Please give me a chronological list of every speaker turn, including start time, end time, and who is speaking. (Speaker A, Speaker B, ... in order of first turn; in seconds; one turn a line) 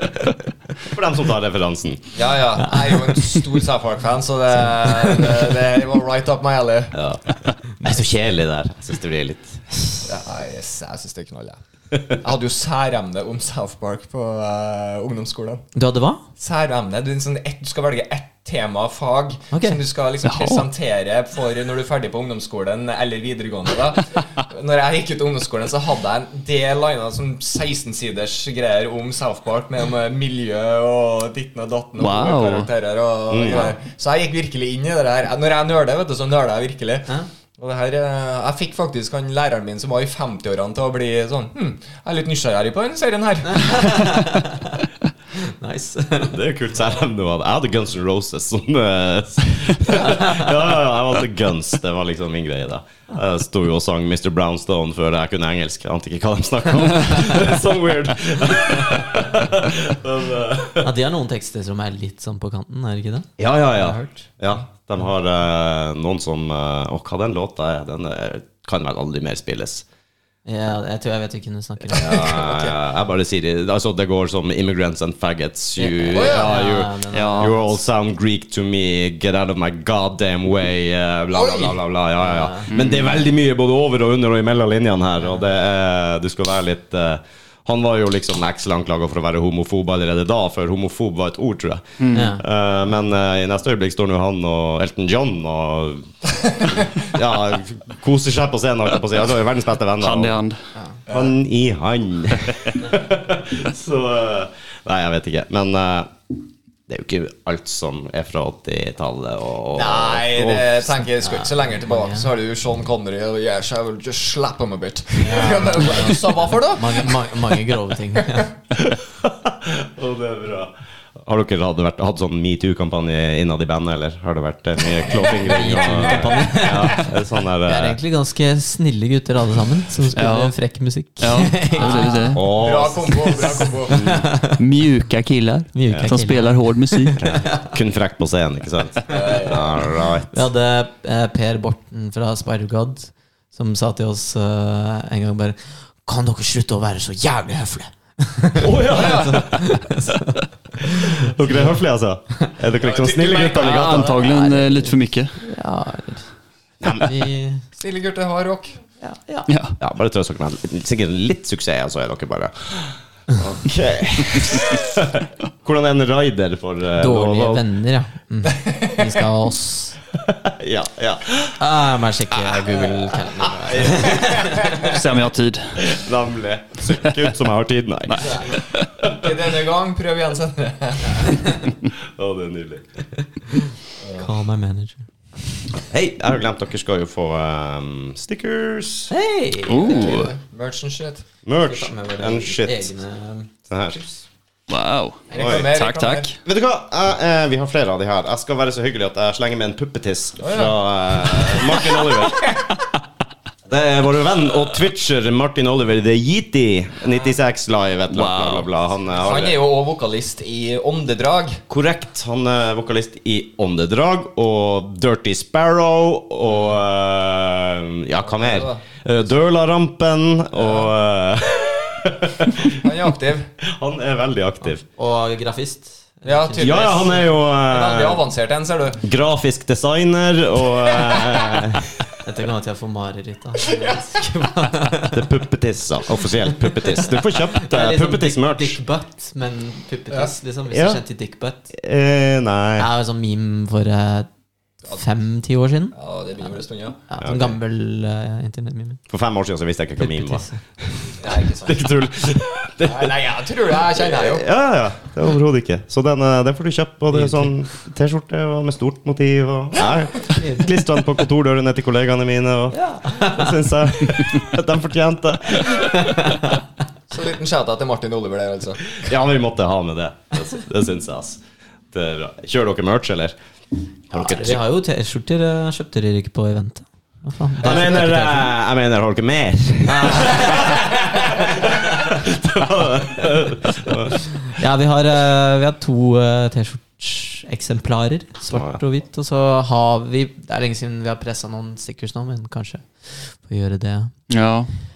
Speaker A: 0.8-2.1
Speaker B: 2.1-7.0
Speaker A: 6.9-9.7
Speaker B: 10.0-15.7
Speaker C: 15.7-16.2
Speaker B: 16.4-44.2
Speaker C: 19.5-19.8
Speaker D: 20.2-20.7
Speaker D: 32.0-32.7
Speaker A: 33.3-33.7
Speaker C: 43.5-44.8
Speaker C: 45.3-46.4
Speaker A: 46.2-60.9
Speaker C: 50.1-50.4
Speaker C: 60.8-64.3
Speaker A: 63.4-69.8
Speaker C: 70.5-72.7
Speaker A: 71.9-100.4
Speaker C: 75.8-77.8
Speaker B: 76.1-76.5
Speaker D: 77.1-77.5
Speaker B: 81.3-81.8
Speaker C: 82.2-82.7
Speaker D: 82.7-83.1
Speaker D: 92.0-92.3
Speaker C: 92.1-92.4
Speaker D: 100.0-100.6
Speaker A: 101.1-111.0
Speaker B: 109.7-117.7
Speaker C: 111.2-112.3
Speaker C: 115.2-118.5
Speaker A: 118.9-128.0
Speaker C: 125.3-127.1
Speaker B: 126.0-126.3
Speaker C: 127.6-134.6
Speaker D: 130.1-130.6
Speaker D: 131.2-132.4
Speaker B: 131.8-134.2
Speaker A: 132.3-134.2
Speaker D: 134.6-137.2
Speaker C: 135.7-137.7
Speaker A: 137.2-140.3
Speaker B: 139.1-139.8
Speaker C: 140.3-151.8
Speaker A: 148.6-149.6
Speaker B: 148.9-149.5
Speaker A: 151.2-154.2
Speaker B: 152.8-154.0
Speaker D: 153.5-155.4
Speaker C: 154.1-156.3
Speaker A: 156.8-157.1
Speaker C: 156.9-157.6
Speaker B: 157.8-158.7
Speaker C: 159.0-159.5
Speaker D: 159.5-159.8
Speaker A: 159.8-167.6
Speaker C: 167.0-170.0
Speaker B: 168.5-169.1
Speaker A: 170.1-171.6
Speaker C: 171.6-174.9
Speaker A: 172.4-174.6
Speaker D: 174.6-175.8
Speaker A: 175.8-178.4
Speaker D: 178.1-178.9
Speaker B: 178.2-181.6
Speaker A: 182.0-183.1
Speaker B: 184.0-184.3
Speaker C: 184.1-185.0
Speaker A: 185.7-189.1
Speaker C: 189.1-190.3
Speaker D: 189.7-190.3
Speaker B: 189.8-191.3
Speaker A: 191.4-192.9
Speaker C: 191.6-193.5
Speaker A: 193.7-194.0
Speaker D: 194.7-196.4
Speaker B: 195.3-196.3
Speaker A: 195.4-195.7
Speaker A: 196.4-202.6
Speaker B: 200.4-200.7
Speaker A: 203.7-209.6
Speaker D: 208.1-208.7
Speaker B: 209.2-211.6
Speaker A: 211.7-222.7
Speaker B: 218.2-218.8
Speaker B: 220.6-220.9
Speaker B: 222.6-223.5
Speaker A: 223.6-224.8
Speaker C: 224.8-227.0
Speaker B: 226.2-229.0
Speaker A: 226.6-228.2
Speaker A: 229.0-232.1
Speaker C: 232.2-235.2
Speaker B: 233.6-234.2
Speaker A: 235.0-238.8
Speaker C: 236.6-241.7
Speaker A: 240.7-241.0
Speaker A: 241.7-242.9
Speaker C: 242.8-244.3
Speaker C: 244.9-249.0
Speaker B: 245.9-247.0
Speaker A: 247.2-247.6
Speaker A: 249.1-253.2
Speaker C: 250.0-250.6
Speaker B: 251.2-251.8
Speaker B: 252.8-254.4
Speaker A: 253.8-266.0
Speaker C: 260.2-260.7
Speaker C: 262.7-263.5
Speaker C: 265.8-266.5
Speaker B: 267.1-269.0
Speaker A: 269.0-271.4
Speaker A: 271.9-273.4
Speaker A: 274.1-274.6
Speaker C: 274.1-278.5
Speaker A: 277.6-284.3
Speaker C: 279.9-281.8
Speaker C: 284.5-294.1
Speaker A: 288.5-288.8
Speaker D: 294.3-294.8